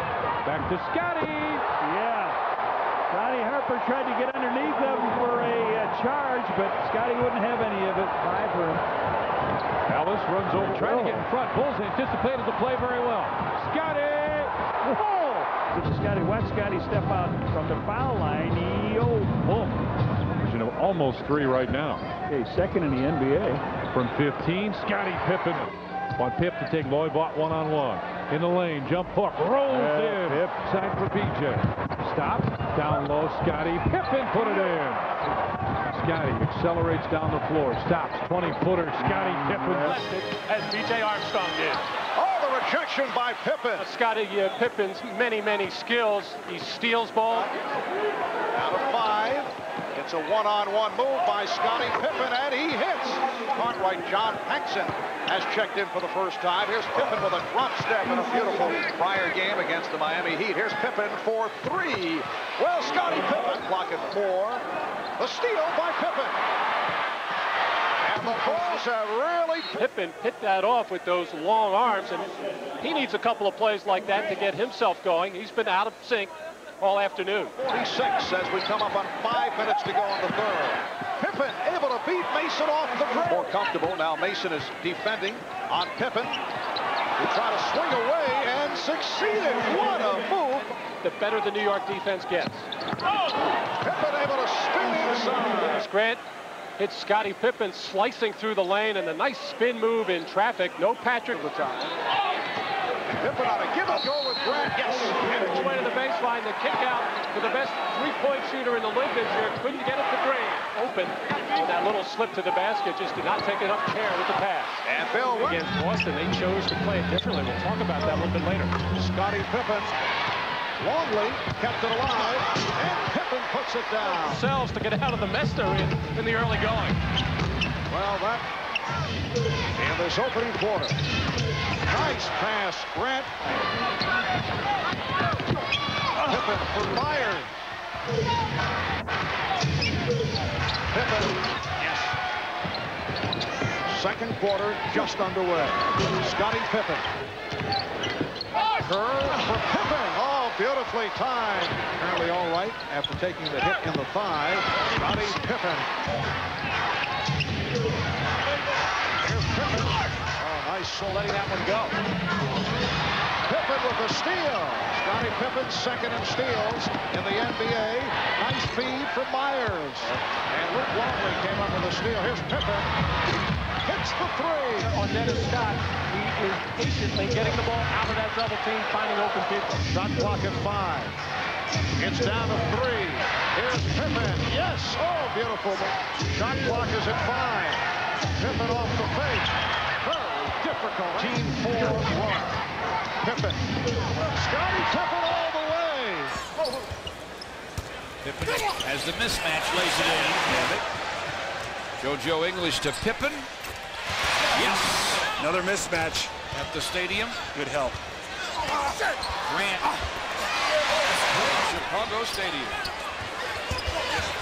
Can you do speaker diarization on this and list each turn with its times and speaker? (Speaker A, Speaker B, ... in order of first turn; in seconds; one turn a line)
Speaker A: 0.4-1.6
Speaker B: 1.8-2.4
Speaker B: 3.1-8.8
Speaker A: 9.9-14.5
Speaker B: 10.6-11.2
Speaker B: 14.8-19.8
Speaker A: 20.3-22.0
Speaker B: 22.3-23.6
Speaker A: 23.9-35.1
Speaker B: 29.6-30.5
Speaker A: 35.9-40.0
Speaker C: 39.8-41.8
Speaker D: 42.1-43.9
Speaker C: 43.8-47.5
Speaker D: 48.5-64.6
Speaker D: 65.2-66.4
Speaker D: 68.0-69.8
Speaker C: 69.8-77.5
Speaker D: 77.5-86.4
Speaker D: 87.2-90.7
Speaker C: 91.0-92.7
Speaker D: 93.8-95.8
Speaker C: 95.5-96.2
Speaker C: 96.8-102.1
Speaker D: 103.2-105.5
Speaker C: 105.0-118.8
Speaker D: 114.8-115.7
Speaker D: 118.9-119.9
Speaker D: 120.8-124.5
Speaker C: 124.0-127.0
Speaker D: 127.9-128.5
Speaker D: 129.8-131.0
Speaker D: 131.9-133.3
Speaker D: 136.2-137.5
Speaker D: 140.9-142.2
Speaker D: 143.8-147.1
Speaker D: 148.7-155.9
Speaker D: 159.2-161.9
Speaker D: 163.4-172.9
Speaker D: 173.8-174.9
Speaker C: 174.8-179.9
Speaker D: 179.9-181.2
Speaker D: 182.0-192.6
Speaker D: 193.2-196.5
Speaker E: 198.2-200.8
Speaker E: 202.0-203.5
Speaker E: 204.5-205.5
Speaker E: 206.5-207.4
Speaker E: 209.5-209.8
Speaker E: 211.4-212.6